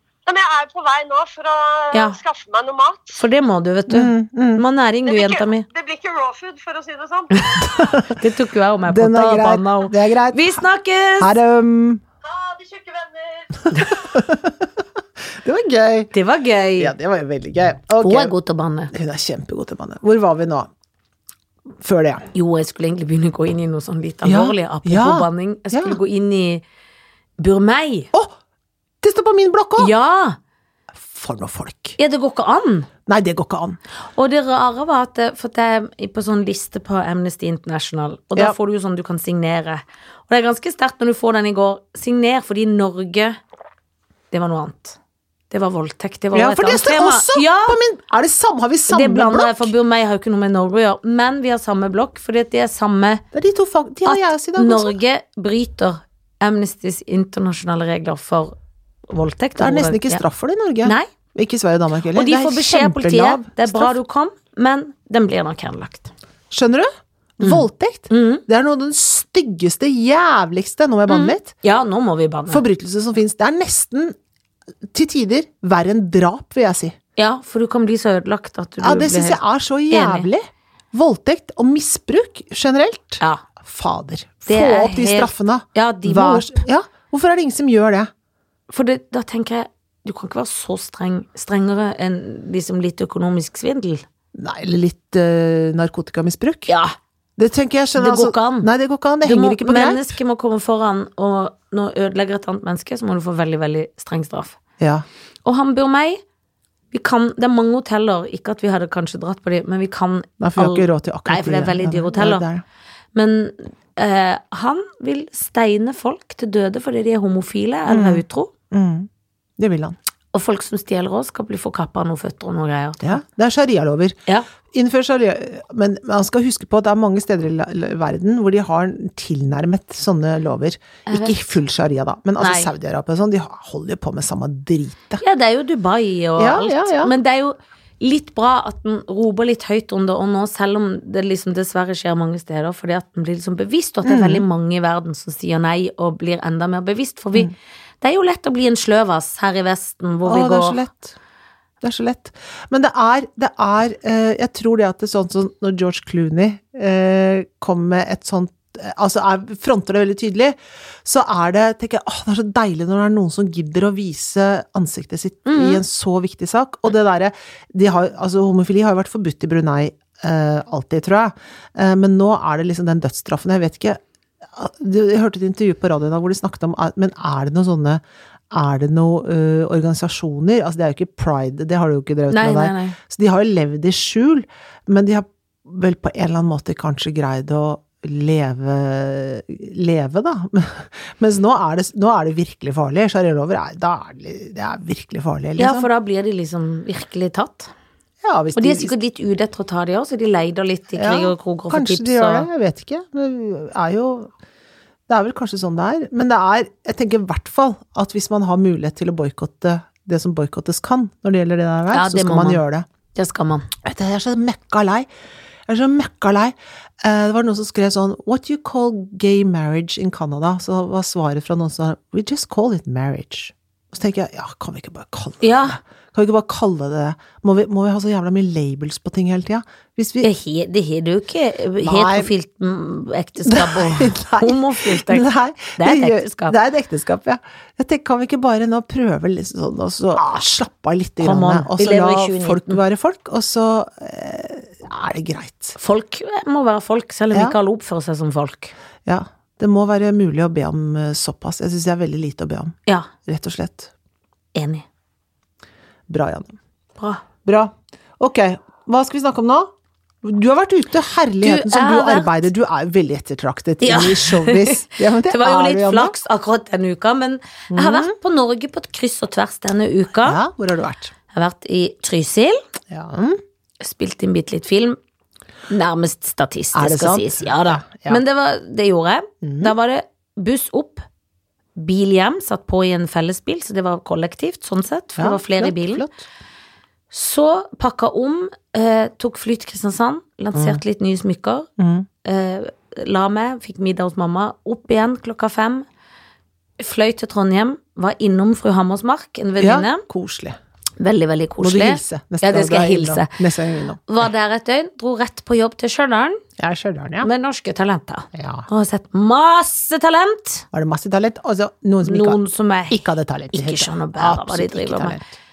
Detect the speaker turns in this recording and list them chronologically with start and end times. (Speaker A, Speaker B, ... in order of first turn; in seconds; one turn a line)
Speaker A: 0.3-3.2
Speaker B: 1.9-2.2
Speaker B: 3.1-5.7
Speaker C: 3.9-4.6
Speaker A: 5.1-8.0
Speaker B: 7.5-11.3
Speaker C: 7.7-8.2
Speaker C: 8.9-10.6
Speaker C: 11.2-12.0
Speaker A: 12.2-14.2
Speaker C: 14.0-14.6
Speaker C: 15.4-16.1
Speaker B: 16.1-16.9
Speaker C: 16.8-18.3
Speaker B: 18.0-18.9
Speaker C: 18.9-20.7
Speaker C: 21.8-22.3
Speaker B: 22.3-26.6
Speaker C: 24.2-26.0
Speaker B: 27.4-28.1
Speaker C: 29.0-29.9
Speaker B: 29.8-30.4
Speaker C: 31.0-32.0
Speaker B: 32.0-32.9
Speaker C: 33.1-33.8
Speaker B: 34.1-43.4
Speaker B: 44.3-45.0
Speaker B: 45.5-47.8
Speaker C: 46.3-49.7
Speaker B: 48.9-53.2
Speaker C: 53.3-55.0
Speaker B: 54.1-58.5
Speaker B: 59.1-60.2
Speaker C: 59.6-64.0
Speaker B: 60.8-61.1
Speaker B: 62.1-66.1
Speaker C: 66.5-71.5
Speaker B: 67.4-68.4
Speaker B: 71.1-72.6
Speaker C: 72.5-74.2
Speaker C: 74.9-77.0
Speaker B: 77.2-80.3
Speaker C: 78.8-88.1
Speaker B: 84.5-86.6
Speaker B: 88.7-94.0
Speaker C: 94.3-96.7
Speaker B: 96.7-97.0
Speaker C: 97.4-100.1
Speaker B: 98.0-98.7
Speaker B: 99.2-104.6
Speaker C: 104.8-105.0
Speaker B: 105.5-106.2
Speaker B: 106.9-112.5
Speaker C: 110.4-112.6
Speaker B: 113.1-118.5
Speaker C: 117.9-120.0
Speaker B: 120.3-123.2
Speaker C: 123.0-124.2
Speaker C: 124.7-135.2
Speaker B: 131.1-131.4
Speaker B: 132.4-132.7
Speaker B: 135.2-150.8
Speaker C: 136.4-137.1
Speaker C: 144.0-144.4
Speaker C: 150.2-151.2
Speaker C: 151.8-174.0
Speaker B: 165.5-165.8
Speaker C: 174.5-195.9
Speaker B: 182.3-183.0
Speaker B: 195.6-197.7
Speaker C: 198.2-199.0
Speaker B: 198.6-202.5
Speaker C: 200.9-204.3
Speaker C: 205.1-212.9
Speaker B: 211.9-212.6
Speaker B: 213.1-213.7
Speaker C: 213.8-215.1
Speaker C: 215.7-230.3
Speaker B: 225.4-225.8
Speaker B: 230.2-235.3
Speaker C: 231.8-232.3
Speaker C: 233.4-245.8
Speaker B: 235.8-236.6
Speaker B: 241.2-242.8
Speaker B: 245.8-248.7
Speaker C: 247.3-247.6
Speaker C: 249.1-253.9
Speaker B: 254.6-254.8
Speaker C: 256.1-256.6
Speaker B: 257.0-257.2
Speaker C: 257.4-259.7
Speaker C: 260.2-266.1
Speaker B: 261.4-262.4
Speaker B: 263.8-270.4
Speaker C: 267.7-268.1
Speaker C: 270.2-271.1
Speaker B: 271.3-272.6
Speaker C: 272.9-273.4
Speaker B: 273.8-275.0
Speaker B: 275.7-281.0
Speaker C: 276.8-278.2
Speaker C: 279.4-279.7
Speaker B: 281.8-286.1
Speaker C: 285.2-286.2
Speaker B: 287.1-291.7
Speaker C: 290.5-290.8
Speaker C: 291.8-292.1
Speaker B: 292.2-295.9
Speaker B: 296.8-300.0
Speaker C: 299.6-300.6
Speaker B: 301.0-303.4
Speaker C: 301.6-304.0
Speaker B: 304.1-306.4
Speaker C: 306.6-307.3
Speaker B: 307.2-310.6
Speaker C: 308.3-308.7
Speaker C: 310.7-315.3
Speaker B: 312.1-313.0
Speaker B: 313.5-315.2